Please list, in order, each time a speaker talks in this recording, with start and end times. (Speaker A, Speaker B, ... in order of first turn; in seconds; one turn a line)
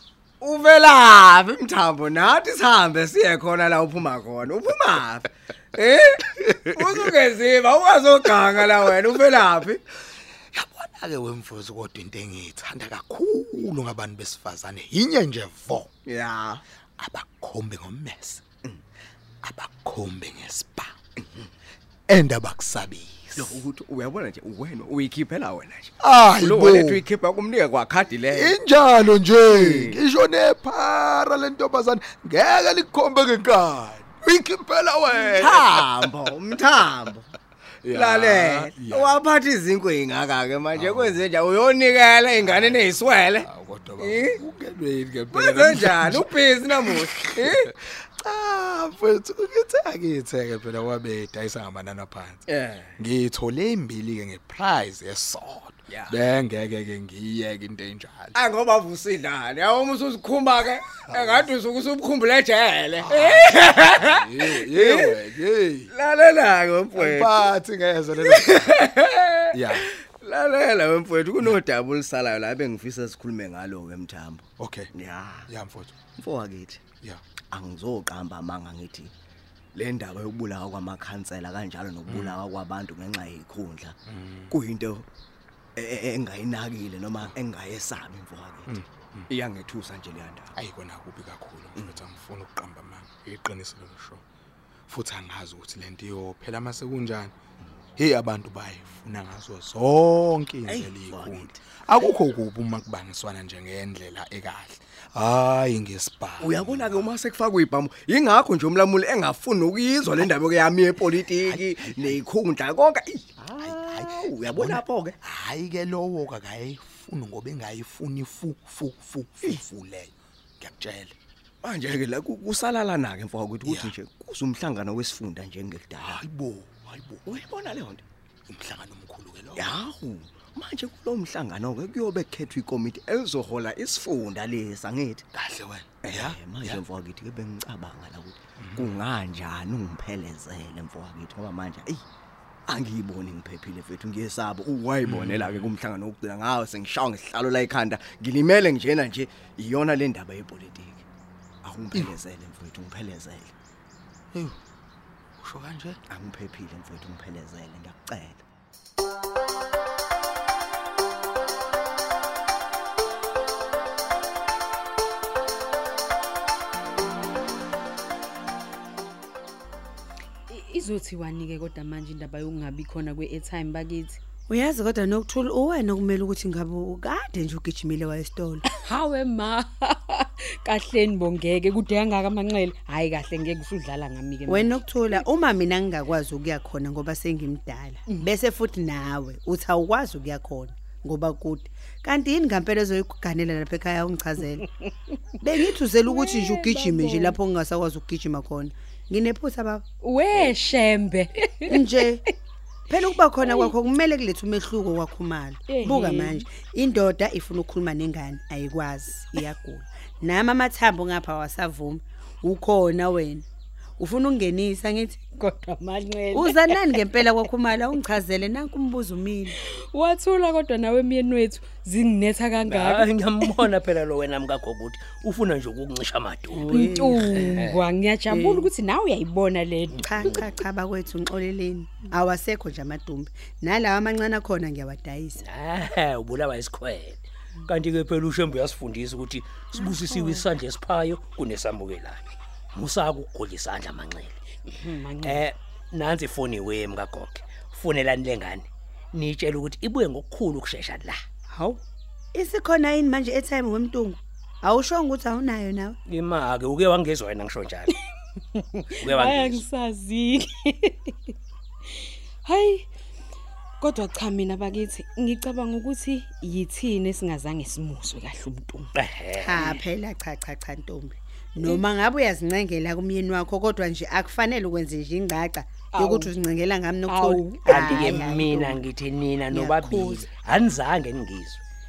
Speaker A: 0.4-9.8
Speaker B: 10.5-15.9
Speaker A: 16.1-16.6
Speaker B: 17.0-18.4
Speaker B: 19.4-20.9
Speaker B: 22.1-23.6
Speaker A: 23.4-28.6
Speaker B: 26.0-27.0
Speaker B: 28.3-36.1
Speaker A: 29.5-30.0
Speaker A: 35.3-37.3
Speaker B: 37.8-39.2
Speaker A: 37.9-43.5
Speaker B: 40.7-41.2
Speaker B: 42.4-58.4
Speaker A: 44.0-44.4
Speaker A: 45.3-47.7
Speaker A: 52.5-53.0
Speaker A: 55.9-56.2
Speaker A: 58.4-65.2
Speaker B: 61.0-61.5
Speaker B: 63.0-65.9
Speaker A: 65.9-67.4
Speaker B: 66.9-68.8
Speaker A: 68.2-75.5
Speaker B: 69.5-69.9
Speaker B: 74.6-74.9
Speaker B: 75.5-76.0
Speaker A: 76.2-76.8
Speaker A: 77.5-79.1
Speaker A: 79.7-84.0
Speaker B: 82.1-82.4
Speaker B: 84.1-84.5
Speaker A: 84.5-85.1
Speaker A: 85.8-88.8
Speaker B: 88.7-89.3
Speaker A: 89.3-90.5
Speaker B: 90.5-94.2
Speaker A: 91.8-92.0
Speaker B: 94.9-97.3
Speaker B: 98.0-107.2
Speaker A: 100.7-102.0
Speaker A: 106.4-115.2
Speaker B: 111.4-112.2
Speaker B: 113.6-121.1
Speaker A: 121.6-126.2
Speaker B: 123.6-123.9
Speaker B: 126.0-127.4
Speaker A: 127.3-128.0
Speaker B: 128.5-129.7
Speaker A: 129.6-135.3
Speaker B: 135.3-136.8
Speaker A: 136.0-142.0
Speaker B: 138.6-138.9
Speaker A: 142.7-151.1
Speaker B: 145.0-145.7
Speaker A: 151.6-153.5
Speaker B: 154.3-154.6
Speaker B: 155.4-156.0
Speaker A: 156.1-158.4
Speaker C: 170.5-174.2
Speaker D: 174.5-178.6
Speaker C: 178.7-184.8
Speaker D: 184.5-194.7
Speaker D: 195.4-199.8
Speaker C: 196.1-197.4
Speaker C: 200.0-202.2
Speaker D: 201.7-202.2
Speaker D: 202.9-213.4
Speaker C: 203.4-203.7
Speaker C: 205.7-206.4
Speaker D: 214.0-215.2
Speaker C: 215.4-217.3
Speaker D: 216.3-219.6
Speaker C: 219.9-223.7
Speaker E: 222.7-226.8
Speaker D: 226.5-227.6
Speaker C: 226.7-230.1
Speaker E: 227.3-227.8
Speaker D: 228.3-228.7
Speaker D: 229.9-235.4
Speaker E: 235.4-244.4
Speaker D: 239.8-240.4
Speaker C: 244.7-245.4
Speaker E: 245.2-251.2
Speaker D: 251.5-251.8
Speaker D: 252.3-256.0
Speaker E: 256.1-257.9
Speaker C: 258.6-261.3
Speaker E: 259.0-259.6
Speaker C: 262.4-262.9
Speaker C: 263.8-268.9
Speaker E: 269.0-269.8
Speaker D: 269.4-278.8
Speaker C: 275.9-276.3
Speaker C: 277.1-278.4
Speaker E: 277.7-281.6
Speaker D: 279.5-280.3